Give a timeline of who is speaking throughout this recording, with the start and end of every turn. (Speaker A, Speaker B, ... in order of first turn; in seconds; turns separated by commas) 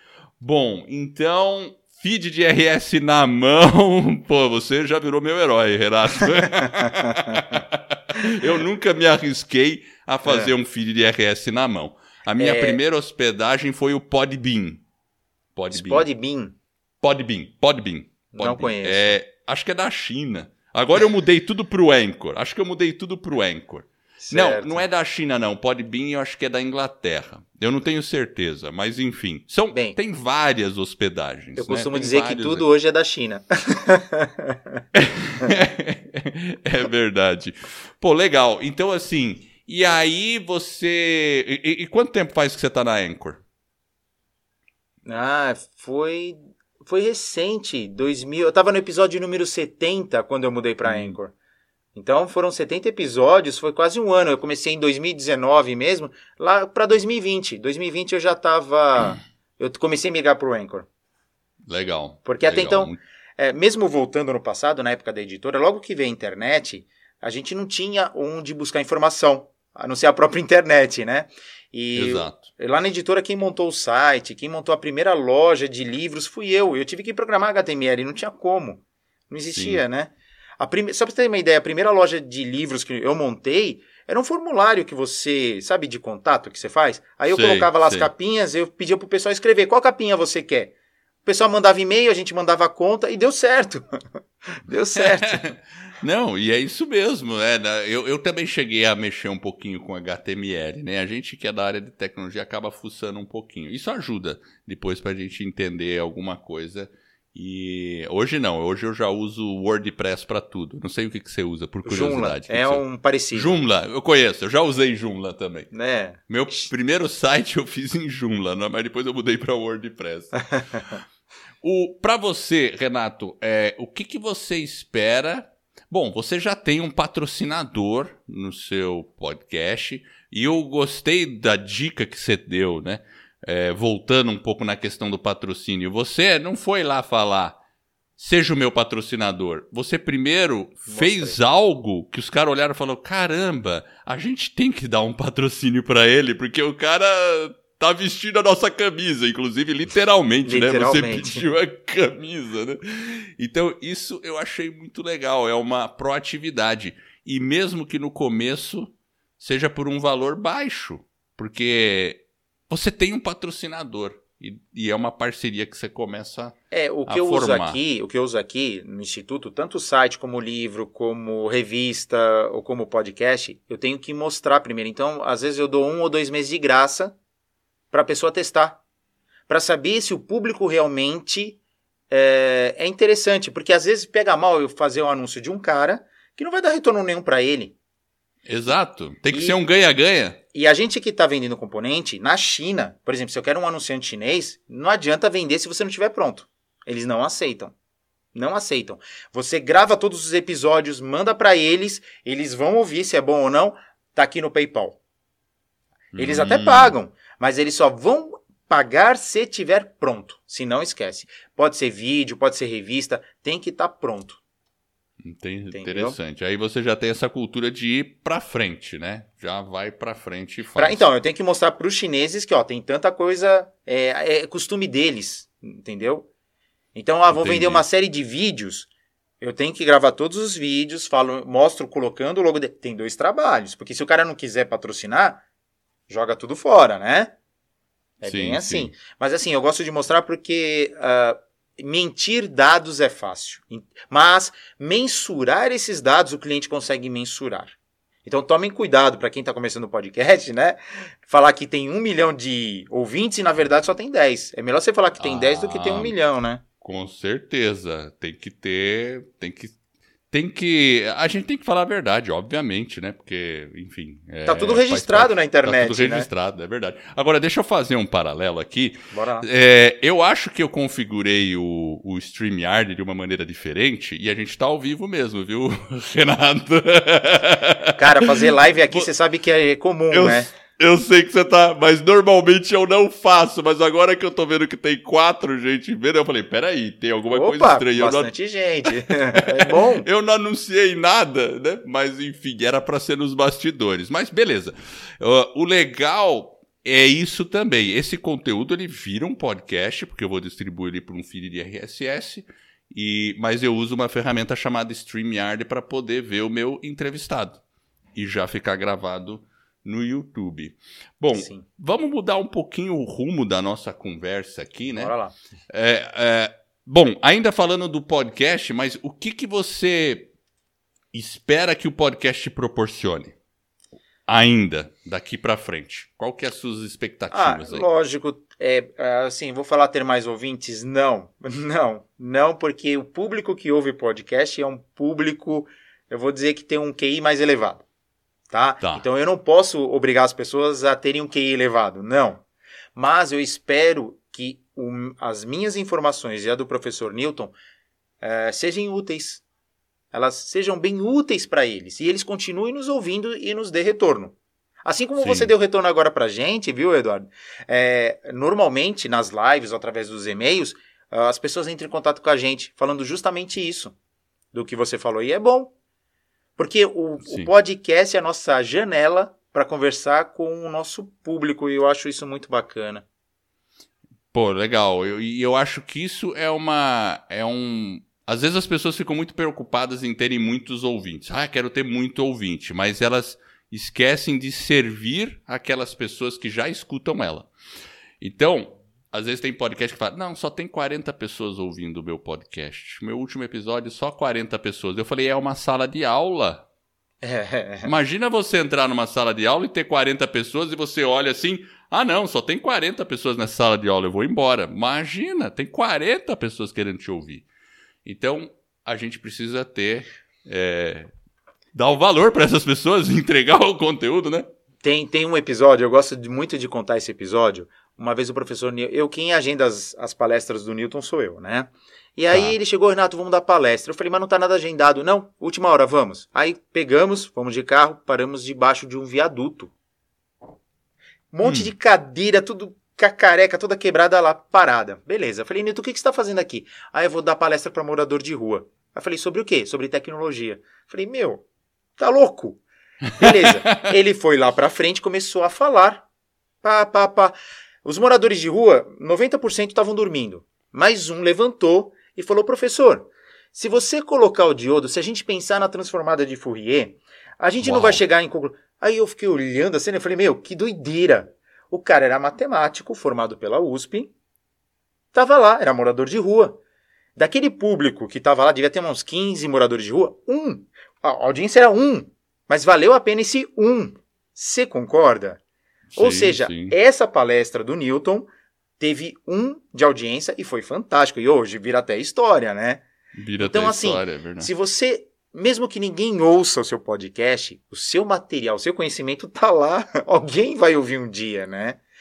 Speaker A: 0.4-14.8, Speaker B: 6.7-7.4, Speaker B: 10.2-10.5, Speaker B: 12.4-12.8, Speaker A: 15.6-16.1, Speaker B: 15.7-16.6, Speaker A: 17.0-32.6, Speaker B: 18.3-19.2, Speaker B: 24.2-24.9, Speaker B: 29.7-30.0, Speaker B: 31.6-34.8, Speaker A: 34.9-43.4, Speaker B: 45.1-51.3, Speaker A: 50.9-51.2, Speaker B: 52.0-60.9, Speaker A: 61.7-63.0, Speaker B: 62.2-90.7, Speaker A: 72.0-72.5, Speaker A: 79.5-79.8, Speaker A: 87.3-88.1, Speaker B: 91.2-95.5, Speaker A: 95.0-112.8, Speaker B: 111.8-113.6, Speaker A: 113.3-115.7, Speaker B: 115.7-116.7, Speaker A: 116.3-120.4, Speaker B: 120.5-121.0, Speaker A: 121.6-137.6, Speaker A: 138.2-167.8, Speaker B: 140.9-141.4, Speaker B: 150.5-151.5, Speaker B: 166.7-177.2, Speaker B: 177.9-178.8, Speaker B: 179.5-181.6, Speaker B: 182.1-187.8, Speaker A: 188.5-190.4, Speaker B: 189.3-189.6, Speaker B: 190.5-197.7, Speaker B: 198.3-205.0, Speaker A: 206.1-206.9, Speaker B: 206.2-214.4, Speaker A: 215.2-221.0, Speaker B: 215.7-216.2, Speaker B: 220.8-226.3, Speaker B: 226.9-228.9, Speaker A: 227.3-227.8, Speaker B: 229.4-235.4, Speaker B: 236.1-237.4, Speaker B: 238.2-256.6, Speaker A: 238.2-238.9, Speaker A: 255.2-256.2, Speaker A: 256.8-259.8, Speaker A: 260.3-279.1, Speaker B: 264.5-266.3, Speaker B: 269.1-269.5, Speaker B: 278.0-280.5, Speaker A: 280.1-288.3, Speaker B: 287.3-290.1, Speaker A: 289.3-307.6, Speaker A: 308.2-315.1, Speaker B: 311.4-311.6, Speaker B: 314.9-315.4, Speaker A: 315.7-320.3, Speaker A: 321.1-323.3, Speaker A: 324.3-327.9, Speaker B: 327.3-337.9, Speaker B: 338.5-342.4, Speaker B: 342.9-347.5, Speaker B: 348.2-349.4, Speaker B: 350.1-363.9, Speaker A: 355.2-355.5, Speaker B: 364.5-365.7, Speaker B: 366.6-373.1, Speaker A: 367.2-367.5, Speaker A: 374.3-387.5, Speaker A: 388.2-396.6, Speaker B: 397.2-397.9, Speaker A: 397.8-407.4, Speaker A: 408.1-411.1, Speaker A: 411.7-414.5, Speaker B: 414.8-429.7, Speaker B: 431.3-441.4, Speaker A: 431.4-431.7, Speaker B: 442.0-442.6, Speaker A: 443.2-443.9, Speaker B: 443.2-446.1, Speaker B: 446.6-464.1, Speaker A: 457.6-458.0, Speaker B: 465.1-466.6, Speaker B: 467.2-475.4, Speaker A: 475.9-476.8, Speaker B: 476.0-482.8, Speaker A: 483.2-484.5, Speaker B: 483.4-491.8